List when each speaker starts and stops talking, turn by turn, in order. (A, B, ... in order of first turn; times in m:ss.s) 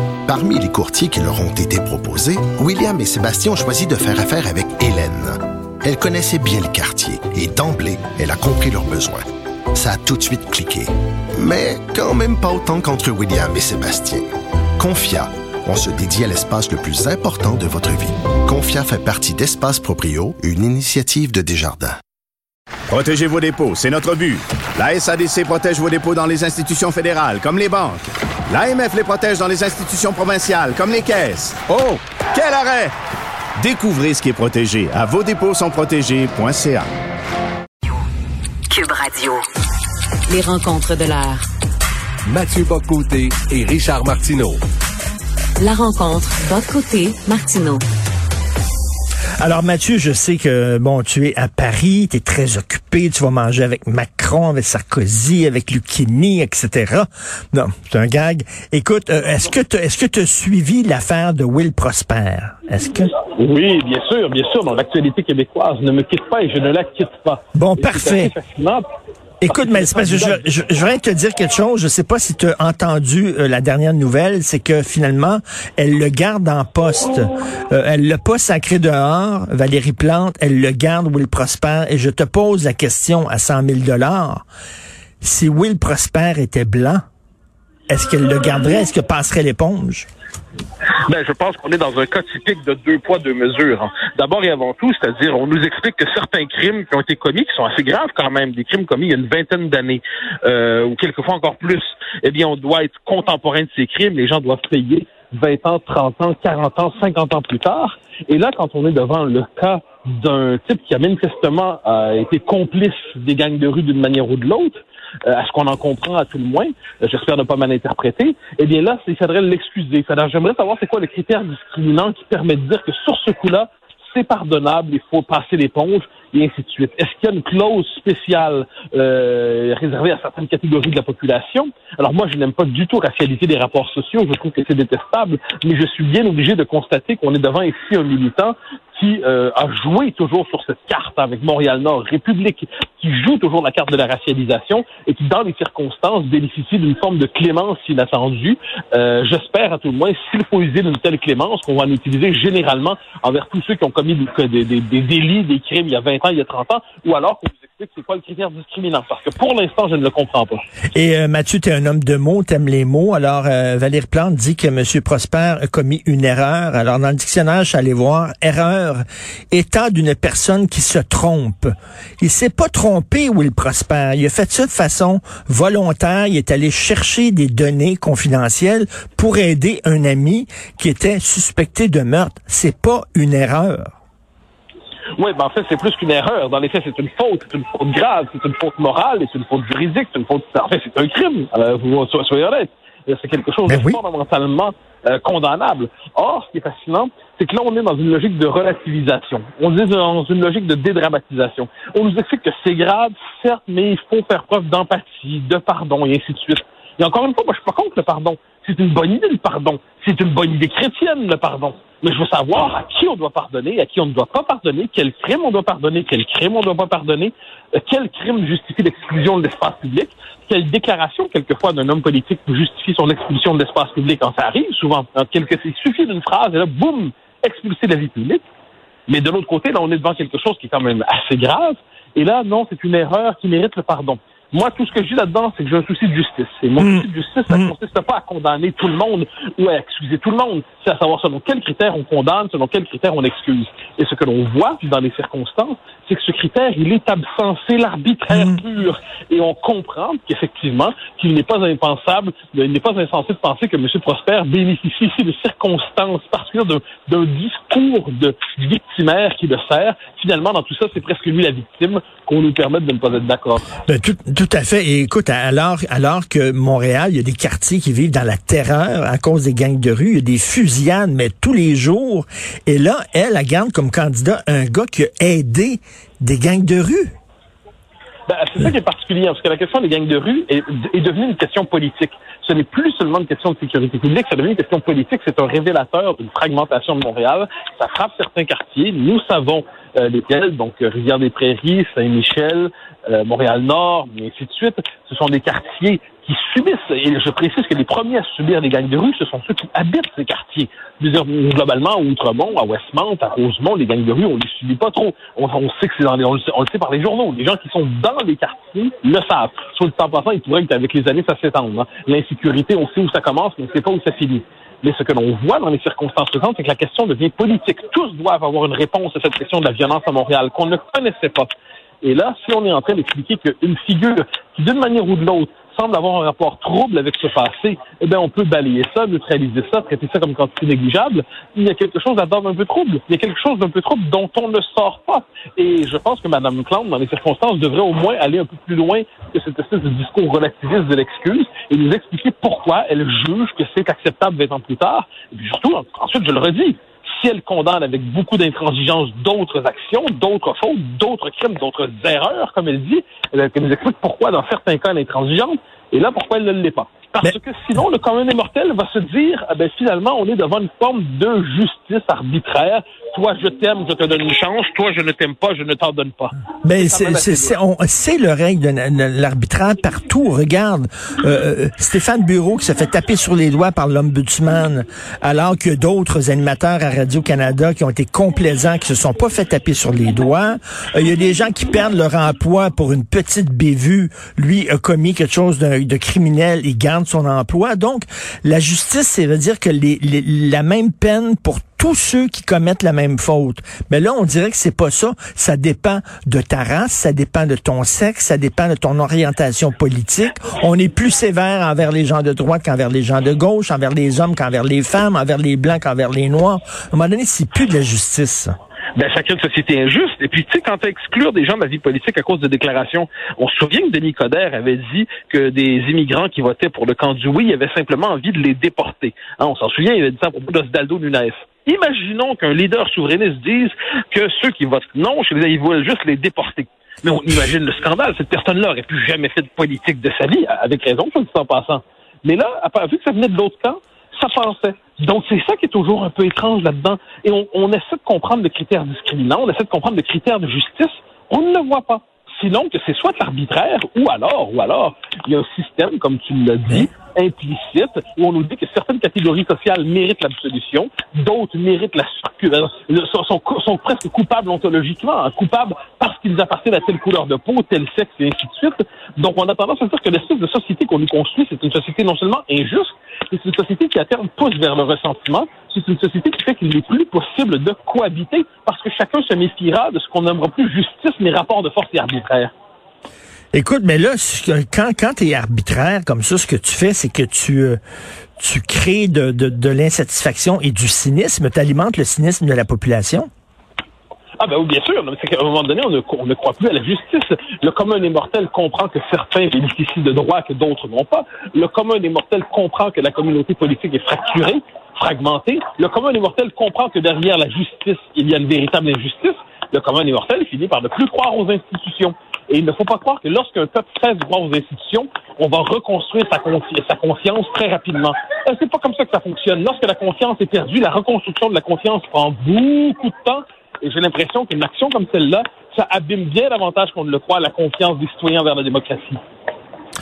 0:00.3-0:14.3 A
0:14.8-0:22.0 A
0:22.9-0:32.9 B
0:33.6-0:36.9 B
0:38.7-0:39.4 C
0:40.3-0:41.5 C
0:42.3-0:44.6 D
0:45.6-0:47.8 C
0:49.4-1:03.1 E
1:03.3-1:08.8 F
1:07.6-1:08.3 E
1:09.4-1:24.4 E
1:09.5-1:10.5 F
1:25.2-1:27.0 E
1:27.9-1:30.1 E
1:31.0-2:40.6 F
2:40.9-3:04.0 E
3:05.2-3:48.4 F
3:13.7-3:14.0 E
3:49.1-4:23.7 F
3:56.8-3:57.7 E
4:08.3-4:08.6 E
4:23.9-4:37.1 E
4:38.3-5:21.5 F
5:22.0-6:07.6 F
6:06.6-6:48.5 E
6:49.0-7:52.5 F
7:53.5-7:57.8 E
7:58.4-8:03.3 E
8:04.4-8:39.2 F